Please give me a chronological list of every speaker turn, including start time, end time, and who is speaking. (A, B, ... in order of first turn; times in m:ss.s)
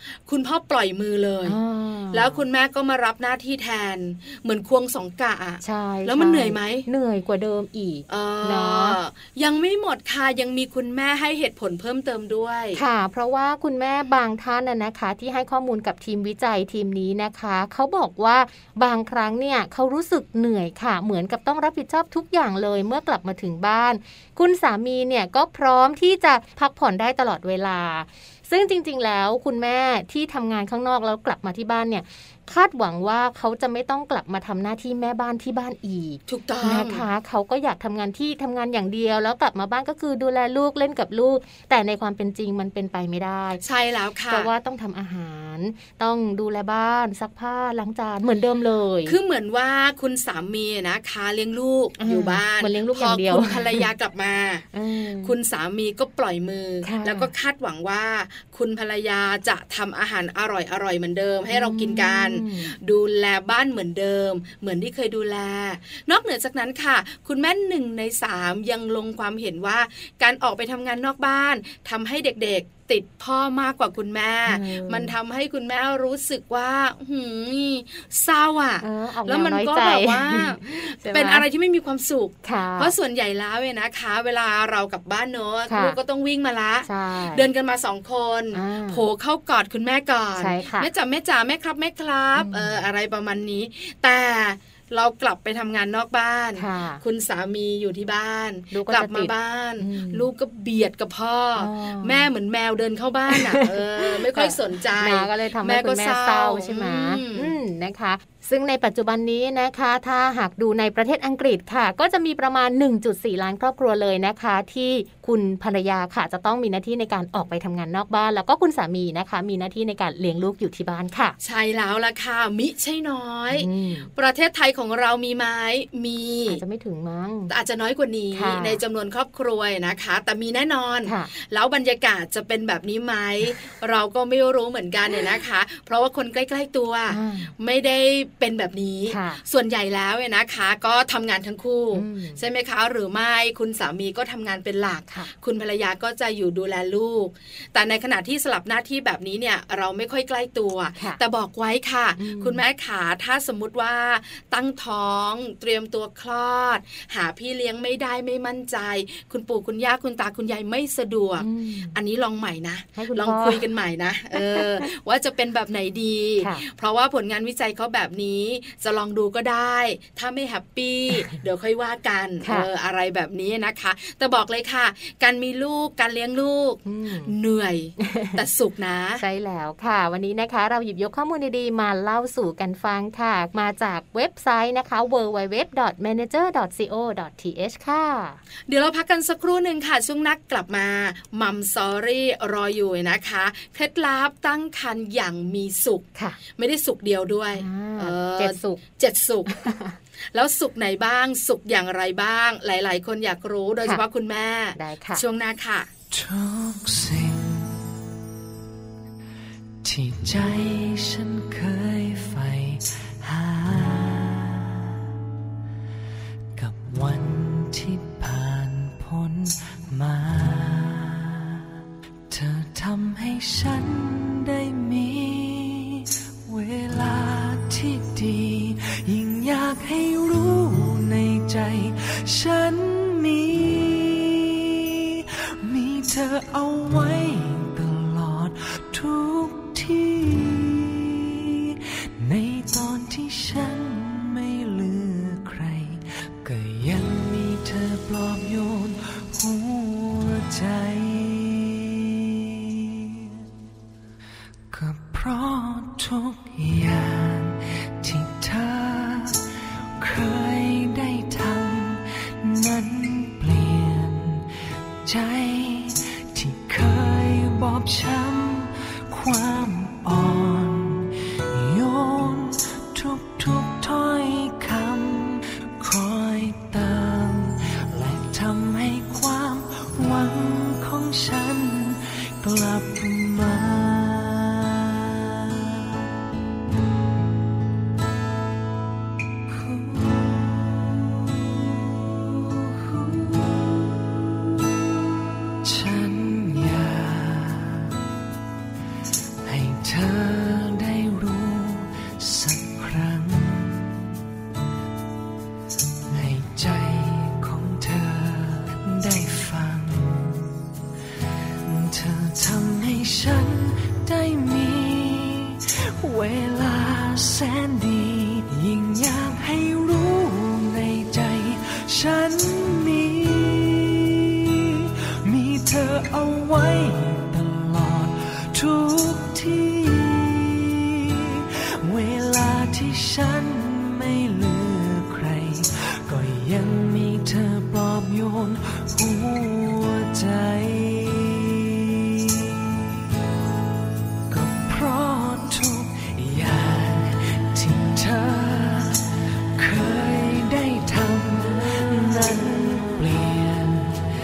0:00.2-0:01.6 A
0:01.4-0:02.4 B
0:02.1-0:06.9 A
0:05.6-0:09.0 B
0:08.1-0:12.8 A
0:12.7-0:43.6 B
0:36.3-0:37.0 A
0:43.6-0:44.5 A
0:44.3-0:49.2 B
0:49.0-0:54.7 A
0:52.0-0:53.9 B
0:54.7-0:55.3 B
0:55.2-1:47.6 A
0:56.8-0:57.3 B
1:01.5-1:02.7 B
1:14.5-1:15.1 B
1:18.8-1:21.4 B
1:22.4-1:22.9 B
1:25.7-1:26.0 B
1:26.8-1:27.5 B
1:28.5-1:29.0 B
1:30.4-1:30.9 B
1:32.4-1:32.8 B
1:36.6-1:37.0 B
1:38.7-1:40.3 B
1:41.6-1:42.3 B
1:43.3-2:01.3 B
2:01.4-2:06.6 A
2:03.5-2:04.1 B
2:06.5-2:07.5 B
2:07.5-2:59.2 A
2:08.3-2:08.8 B
2:11.0-2:11.3 B
2:17.1-2:17.5 B
2:19.1-2:19.4 B
2:21.9-2:22.4 B
2:32.2-2:32.6 B
2:41.4-2:42.0 B
2:43.0-2:43.6 B
2:44.3-2:44.9 B
2:52.4-2:52.7 B
2:56.8-2:57.3 B
2:58.0-2:58.4 B
2:59.2-3:08.4 B
3:08.7-3:19.5 A
3:17.6-3:18.8 B
3:19.5-3:20.0 B
3:20.3-3:25.9 A
3:24.7-3:25.2 B
3:26.1-3:27.8 C
3:29.8-3:34.9 C
3:36.6-3:41.6 C
3:42.3-4:13.3 C
4:14.7-4:19.4 C
4:20.0-4:24.5 C
4:25.0-4:45.8 C
4:49.5-4:53.9 C
4:55.6-4:57.9 C
4:59.4-5:04.0 C
5:06.1-5:10.5 C
5:11.6-5:42.8 C
5:44.3-5:49.0 C
5:49.6-5:54.0 C